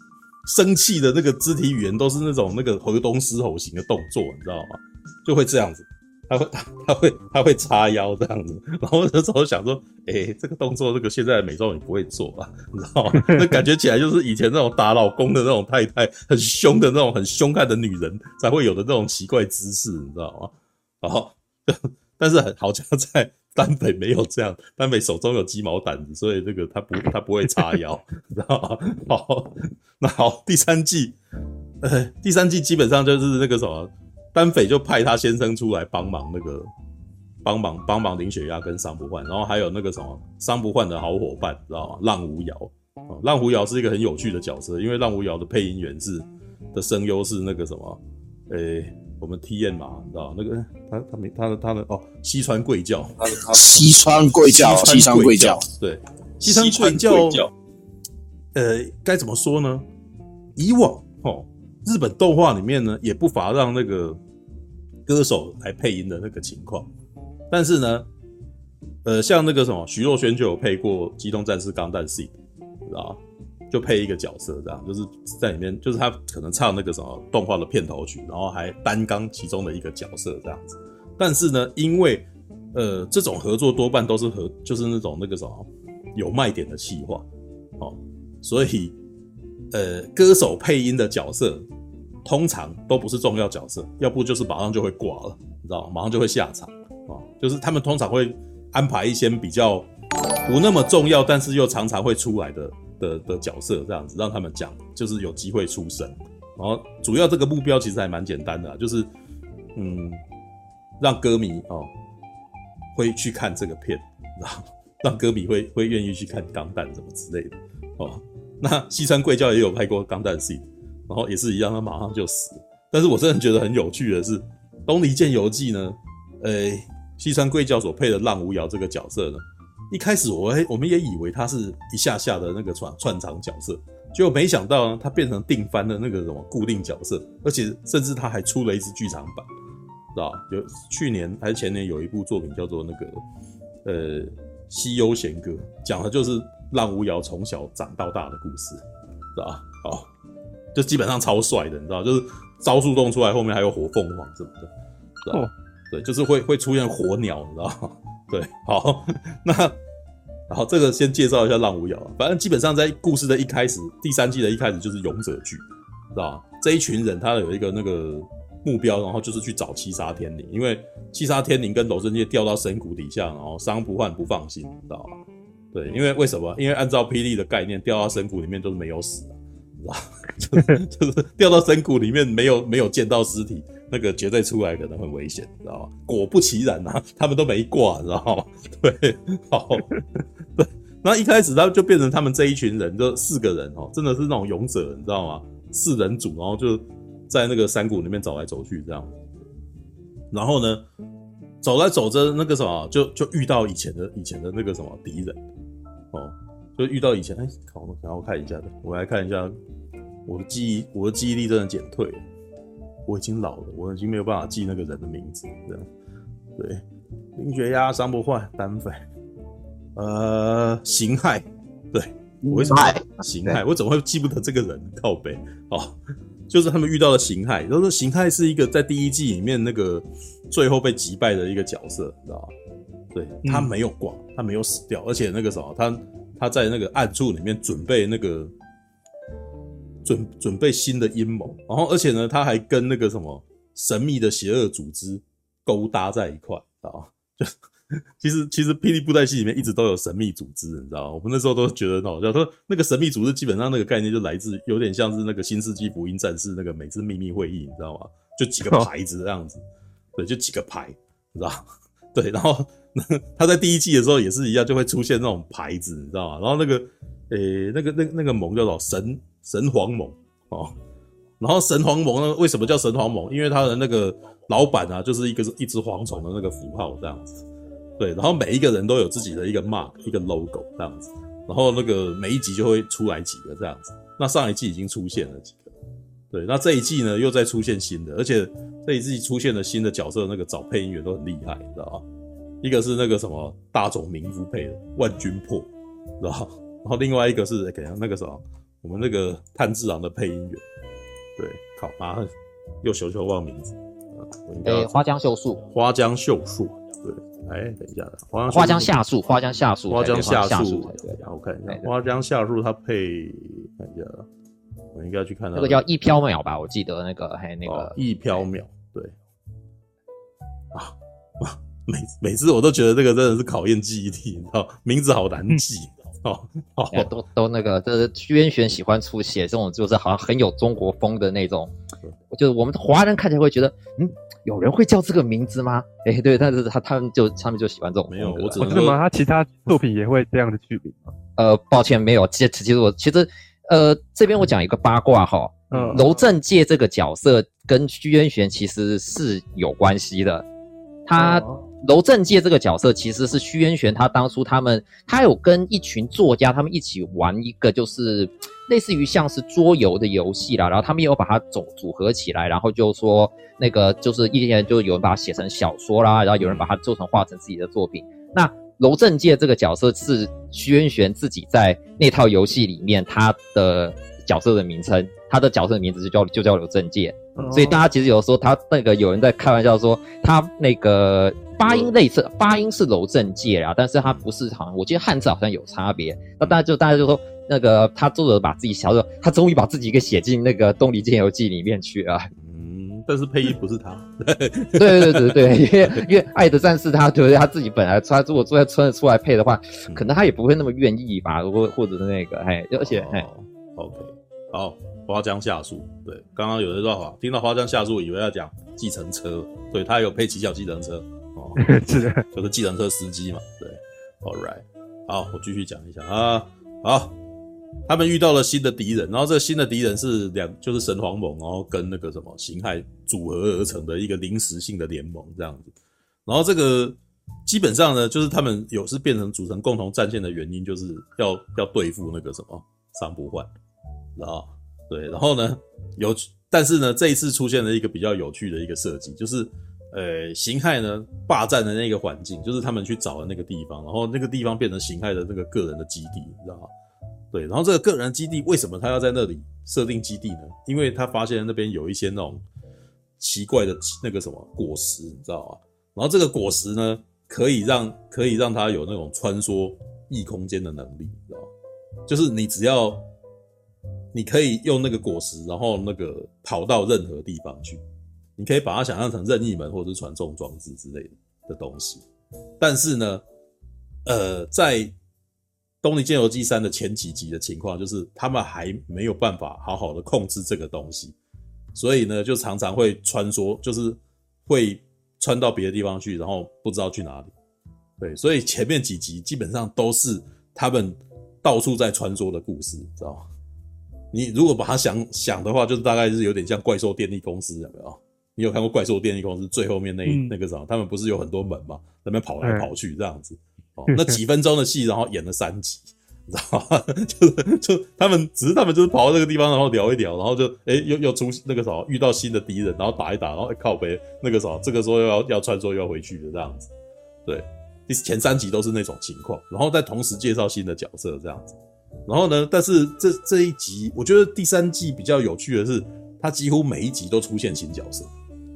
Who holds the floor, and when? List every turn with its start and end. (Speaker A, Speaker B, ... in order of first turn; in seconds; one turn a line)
Speaker A: 0.5-31.2
Speaker A: 31.8-36.7
Speaker A: 37.4-53.9
Speaker B: 53.3-55.6
Speaker A: 54.5-57.5
Speaker B: 56.5-57.4
Speaker A: 58.5-59.9
Speaker A: 60.6-64.2
Speaker A: 65.1-66.9
Speaker A: 67.5-68.1
Speaker A: 69.0-72.3
Speaker A: 72.9-73.2
Speaker A: 73.7-87.3
Speaker A: 87.8-89.0
Speaker A: 89.7-91.7
Speaker A: 92.2-99.9
Speaker A: 100.5-109.1
Speaker A: 109.8-110.2
Speaker A: 111.0-111.9
Speaker A: 112.9-139.5
Speaker A: 140.2-143.2
Speaker A: 143.8-148.8
Speaker A: 149.3-150.1
Speaker A: 150.7-154.7
Speaker A: 155.2-159.8
Speaker A: 160.5-175.2
Speaker A: 175.7-199.2
Speaker A: 200.3-200.8
Speaker A: 201.6-205.4
Speaker A: 206.1-209.5
Speaker A: 210.3-212.2
Speaker A: 213.1-215.9
Speaker A: 216.6-216.8
Speaker A: 217.3-219.0
Speaker A: 219.9-226.0
Speaker A: 226.5-232.5
Speaker A: 233.1-238.5
Speaker C: 233.4-233.7
Speaker A: 240.0-259.6
Speaker A: 260.1-270.8
Speaker A: 271.4-277.4
Speaker A: 278.0-285.7
Speaker A: 286.3-292.1
Speaker A: 292.6-295.7
Speaker A: 296.2-300.6
Speaker A: 301.4-302.3
Speaker A: 302.8-305.0
Speaker D: 304.6-305.6
Speaker A: 305.7-308.9
Speaker D: 308.5-311.9
Speaker A: 309.9-314.3
Speaker A: 314.9-315.8
Speaker D: 315.6-317.9
Speaker A: 317.6-319.1
Speaker A: 320.7-327.1
Speaker D: 326.9-331.7
Speaker D: 332.3-338.9
Speaker A: 338.1-339.0
Speaker C: 338.6-341.1
Speaker D: 341.4-350.5
Speaker A: 345.7-346.1
Speaker C: 345.7-346.1
Speaker D: 351.1-392.3
Speaker C: 351.2-351.6
Speaker A: 366.4-366.7
Speaker C: 377.4-377.8
Speaker A: 392.4-396.1
Speaker D: 394.8-403.2
Speaker A: 402.8-411.7
Speaker C: 411.6-412.2
Speaker A: 412.2-417.1
Speaker A: 417.9-425.8
Speaker A: 426.3-433.5
Speaker A: 434.2-446.7
Speaker A: 447.3-452.4
Speaker A: 453.2-461.5
Speaker A: 462.1-463.0
Speaker A: 464.1-467.8
Speaker A: 468.4-472.1
Speaker A: 472.6-473.2
Speaker A: 474.1-474.9
Speaker A: 475.8-481.1
Speaker A: 481.8-487.3
Speaker A: 488.0-493.3
Speaker A: 494.1-516.7
Speaker C: 500.1-500.3
Speaker C: 502.4-502.7
Speaker C: 503.9-504.2
Speaker A: 517.3-528.1